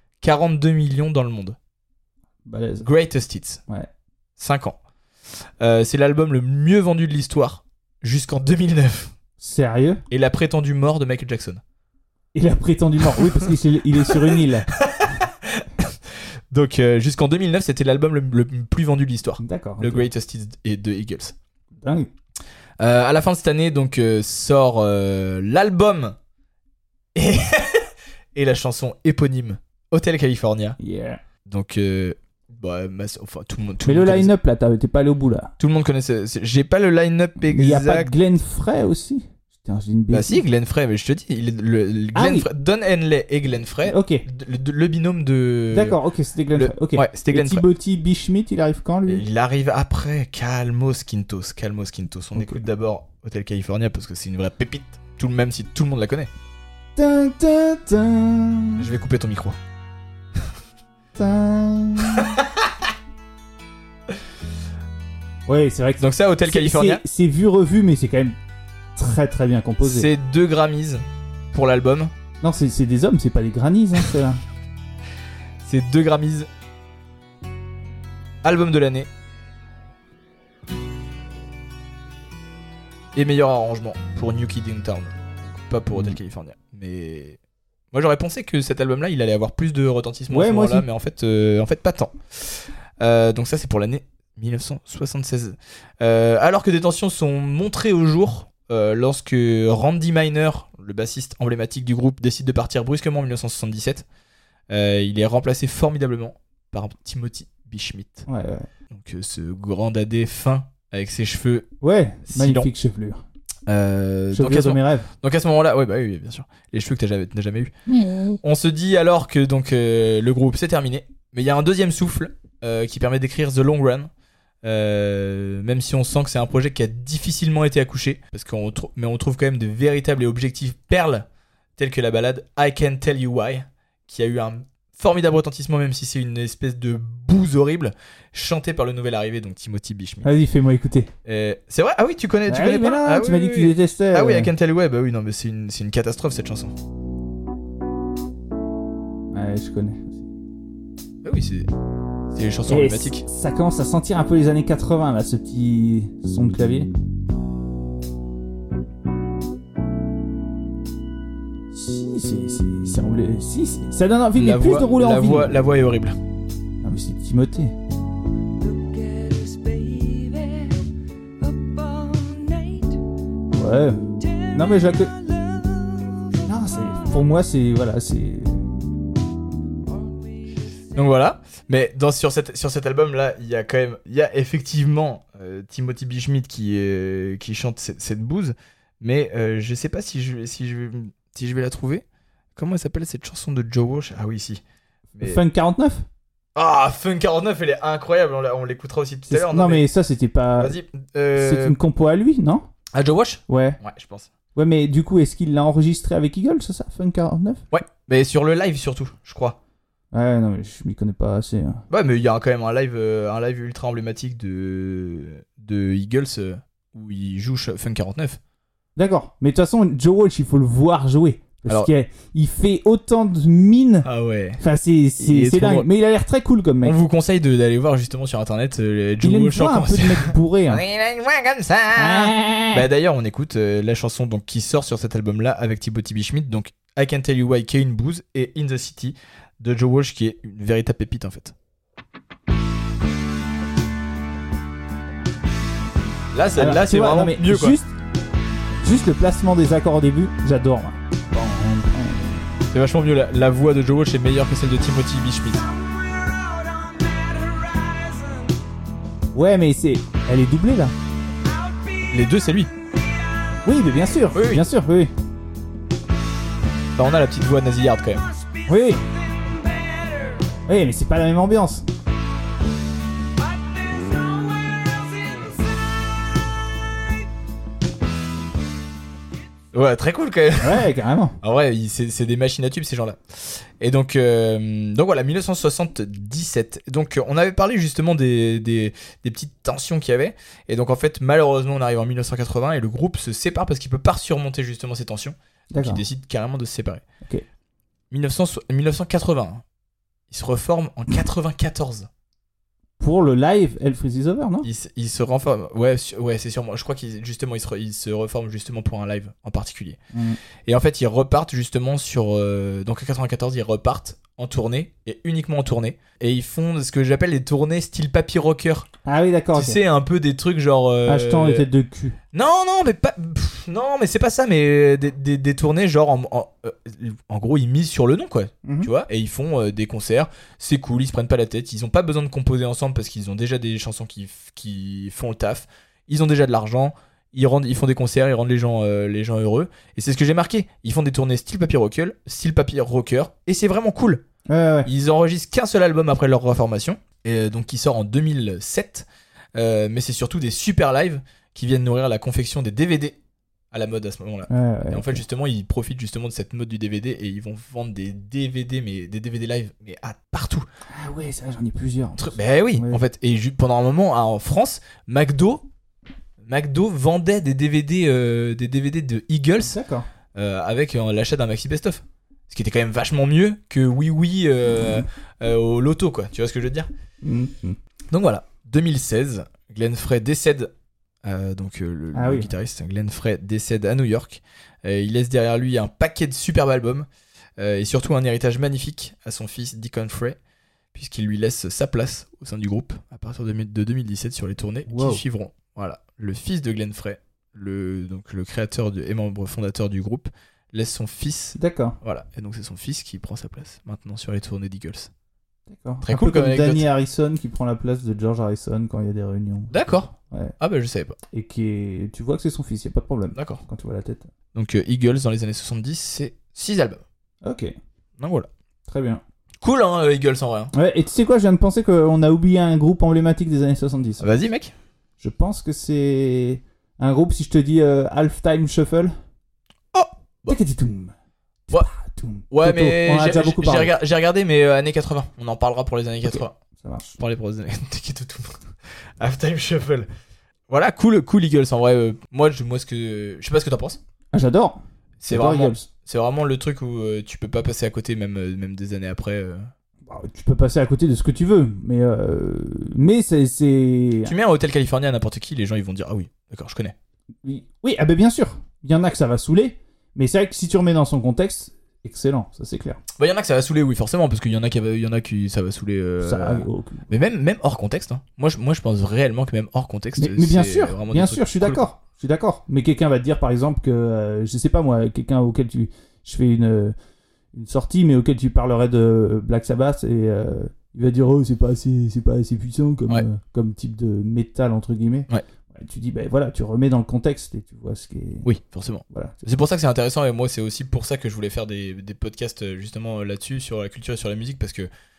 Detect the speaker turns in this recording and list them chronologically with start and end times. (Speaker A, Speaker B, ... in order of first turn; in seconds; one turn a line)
Speaker A: 0.2-1.6
Speaker B: 2.5-2.9
Speaker A: 2.8-3.6
Speaker A: 4.4-4.8
Speaker A: 5.6-9.1
Speaker B: 9.4-10.0
Speaker A: 10.1-11.6
Speaker B: 12.3-14.7
Speaker A: 13.1-21.4
Speaker B: 19.4-20.1
Speaker B: 21.8-22.1
Speaker A: 22.8-26.2
Speaker A: 27.1-30.8
Speaker B: 30.8-31.2
Speaker A: 31.4-34.3
Speaker B: 33.9-35.5
Speaker A: 35.6-38.1
Speaker B: 37.5-40.4
Speaker A: 40.1-46.0
Speaker B: 42.1-42.5
Speaker B: 43.9-44.2
Speaker B: 45.7-49.2
Speaker A: 46.5-47.6
Speaker A: 49.1-56.3
Speaker B: 52.4-52.6
Speaker B: 57.0-58.9
Speaker A: 58.8-59.6
Speaker B: 61.2-62.4
Speaker A: 62.2-62.5
Speaker B: 65.5-68.4
Speaker A: 66.0-67.0
Speaker B: 69.0-70.1
Speaker A: 69.8-72.1
Speaker B: 72.4-74.4
Speaker A: 75.6-76.5
Speaker A: 78.4-79.1
Speaker A: 83.1-87.4
Speaker A: 87.9-104.1
Speaker B: 90.3-90.9
Speaker A: 104.7-108.2
Speaker B: 108.3-108.7
Speaker A: 108.9-111.7
Speaker B: 111.8-113.2
Speaker A: 112.3-112.7
Speaker A: 113.7-117.7
Speaker B: 114.3-115.1
Speaker B: 117.9-118.4
Speaker A: 118.4-124.1
Speaker A: 124.6-131.3
Speaker A: 131.8-140.3
Speaker B: 140.2-141.1
Speaker A: 141.2-146.7
Speaker B: 142.5-144.5
Speaker B: 149.3-150.2
Speaker A: 151.2-151.7
Speaker A: 152.3-153.2
Speaker B: 152.7-156.9
Speaker B: 161.7-165.6
Speaker A: 164.3-166.2
Speaker B: 166.8-167.8
Speaker C: 168.6-170.8
Speaker C: 171.4-173.0
Speaker B: 173.5-175.1
Speaker C: 174.1-177.2
Speaker B: 176.5-178.7
Speaker C: 179.8-181.1
Speaker A: 180.9-192.0
Speaker A: 192.6-194.6
Speaker A: 195.2-195.4
Speaker B: 195.2-196.1
Speaker A: 196.6-199.8
Speaker B: 199.3-200.8
Speaker A: 200.6-201.8
Speaker B: 201.4-202.7
Speaker A: 202.9-204.3
Speaker B: 203.5-203.8
Speaker B: 204.6-207.6
Speaker A: 207.7-209.6
Speaker B: 210.1-211.8
Speaker A: 211.9-218.4
Speaker B: 219.0-224.1
Speaker A: 224.1-224.6
Speaker B: 224.6-227.0
Speaker A: 225.2-225.9
Speaker A: 226.8-241.6
Speaker B: 229.2-230.8
Speaker B: 231.9-232.9
Speaker A: 246.3-247.8
Speaker B: 246.6-247.9
Speaker B: 248.8-252.4
Speaker A: 252.7-255.6
Speaker C: 255.5-258.6
Speaker B: 259.3-260.9
Speaker C: 261.4-263.9
Speaker A: 262.1-262.7
Speaker B: 263.6-265.1
Speaker A: 264.3-264.6
Speaker A: 267.0-268.2
Speaker C: 268.2-270.6
Speaker B: 268.7-269.0
Speaker B: 270.7-271.9
Speaker C: 273.4-277.0
Speaker A: 279.7-280.9
Speaker B: 280.6-281.4
Speaker A: 281.4-297.0
Speaker B: 295.7-296.0
Speaker A: 298.1-299.6
Speaker A: 300.3-302.1
Speaker B: 303.0-304.7
Speaker A: 304.6-310.0
Speaker B: 310.1-310.4
Speaker A: 310.6-318.9
Speaker B: 319.1-319.8
Speaker A: 319.5-321.7
Speaker B: 321.1-322.2
Speaker A: 322.3-344.2
Speaker B: 344.5-344.9
Speaker A: 344.9-353.2
Speaker A: 353.7-360.7
Speaker B: 354.5-355.2
Speaker B: 360.9-363.0
Speaker A: 362.2-365.6
Speaker A: 366.4-369.8
Speaker B: 369.6-370.1
Speaker A: 370.3-376.9
Speaker B: 377.2-377.8
Speaker A: 378.1-380.7
Speaker A: 381.2-387.1
Speaker B: 382.1-382.5
Speaker A: 387.6-390.4
Speaker A: 390.9-405.1
Speaker B: 394.9-395.2
Speaker B: 401.6-402.0
Speaker B: 405.7-410.5
Speaker A: 406.0-406.9
Speaker A: 409.7-411.2
Speaker B: 411.3-414.3
Speaker A: 413.4-413.6
Speaker A: 414.6-417.0
Speaker B: 417.4-417.7
Speaker A: 418.2-418.5
Speaker B: 418.9-419.2
Speaker A: 419.6-420.7
Speaker B: 420.7-424.3
Speaker A: 424.2-424.7
Speaker B: 425.2-429.1
Speaker A: 429.9-430.6
Speaker B: 430.5-431.1
Speaker B: 431.7-433.9
Speaker A: 432.5-436.6
Speaker B: 436.3-437.2
Speaker A: 437.2-438.6
Speaker A: 439.2-440.1
Speaker A: 440.7-444.0
Speaker B: 444.3-445.9
Speaker A: 445.2-449.7
Speaker B: 450.1-454.3
Speaker A: 454.3-456.9
Speaker B: 457.4-463.0
Speaker A: 463.2-471.8
Speaker B: 466.2-467.1
Speaker B: 470.2-476.9
Speaker B: 477.5-488.5
Speaker A: 488.4-494.9
Speaker B: 489.1-489.4